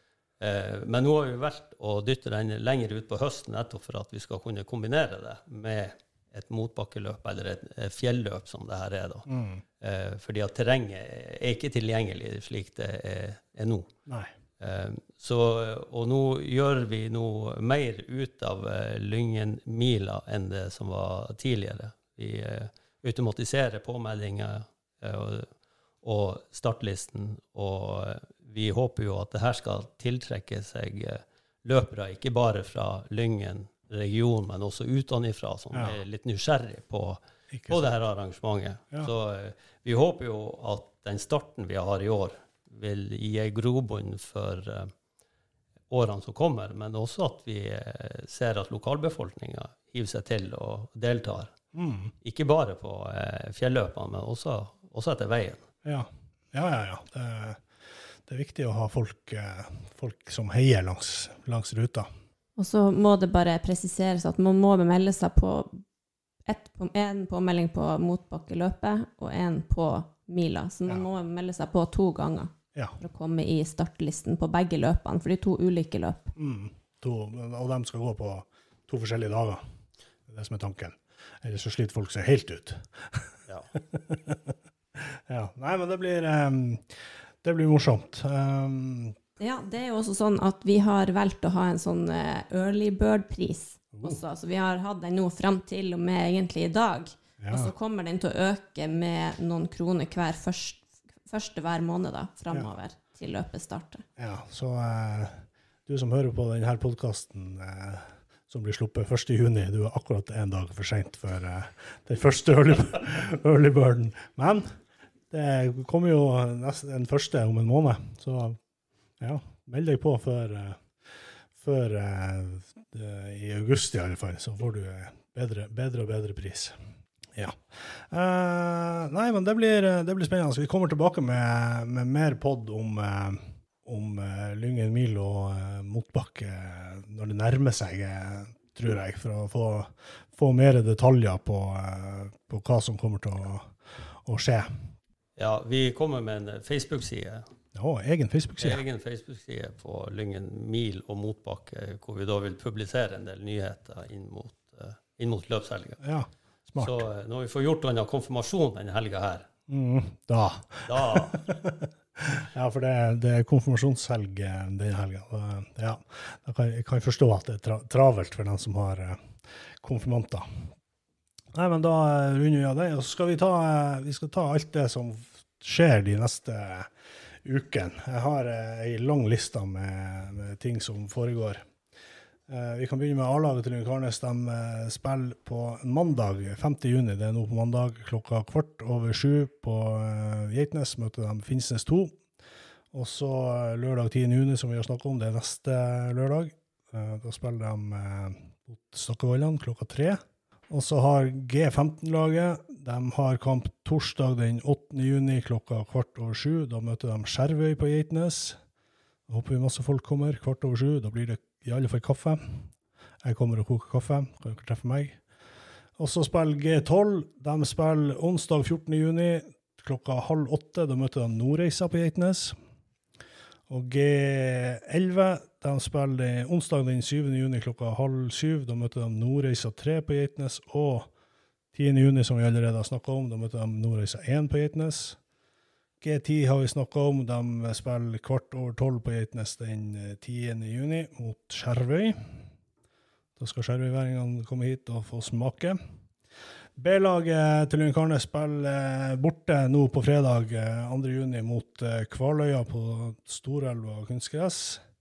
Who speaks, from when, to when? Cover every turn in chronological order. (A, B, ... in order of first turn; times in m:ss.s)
0:00.4-0:09.3 A
0:09.3-0:09.6 B
0:09.8-0:13.9 A
0:14.1-0:14.3 B
0:14.6-0:25.5 A
0:26.0-0:44.9 A
0:37.5-0:37.8 B
0:45.9-0:51.5 A
0:51.7-0:52.1 B
0:52.2-0:55.6 A
0:55.8-0:57.7 B
0:58.3-1:02.1 B
1:02.6-1:05.8 C
1:06.5-1:16.3 C
1:16.4-1:19.6 B
1:20.3-1:23.4 B
1:23.9-1:24.5 B
1:25.1-1:29.2 B
1:29.4-1:44.0 C
1:33.9-1:34.2 B
1:37.4-1:37.7 B
1:44.2-1:54.7 B
1:55.3-1:58.6 B
1:59.2-2:00.8 B
2:01.6-2:06.8 B
2:07.4-2:24.7 B
2:25.4-2:27.5 A
2:27.7-2:28.8 B
2:28.6-2:36.0 A
2:36.0-2:37.1 B
2:36.8-2:39.5 A
2:39.7-2:50.5 B
2:40.9-2:41.5 A
2:51.5-2:56.9 B
2:57.4-3:01.6 B
3:02.5-3:12.2 B
3:12.9-3:28.6 B
3:29.3-3:32.7 B
3:33.2-3:35.2 B
3:36.0-3:42.6 B
3:43.7-3:51.1 B
3:51.7-3:55.2 B
3:56.0-4:02.2 B
4:03.4-4:05.8 B
4:06.8-4:14.8 B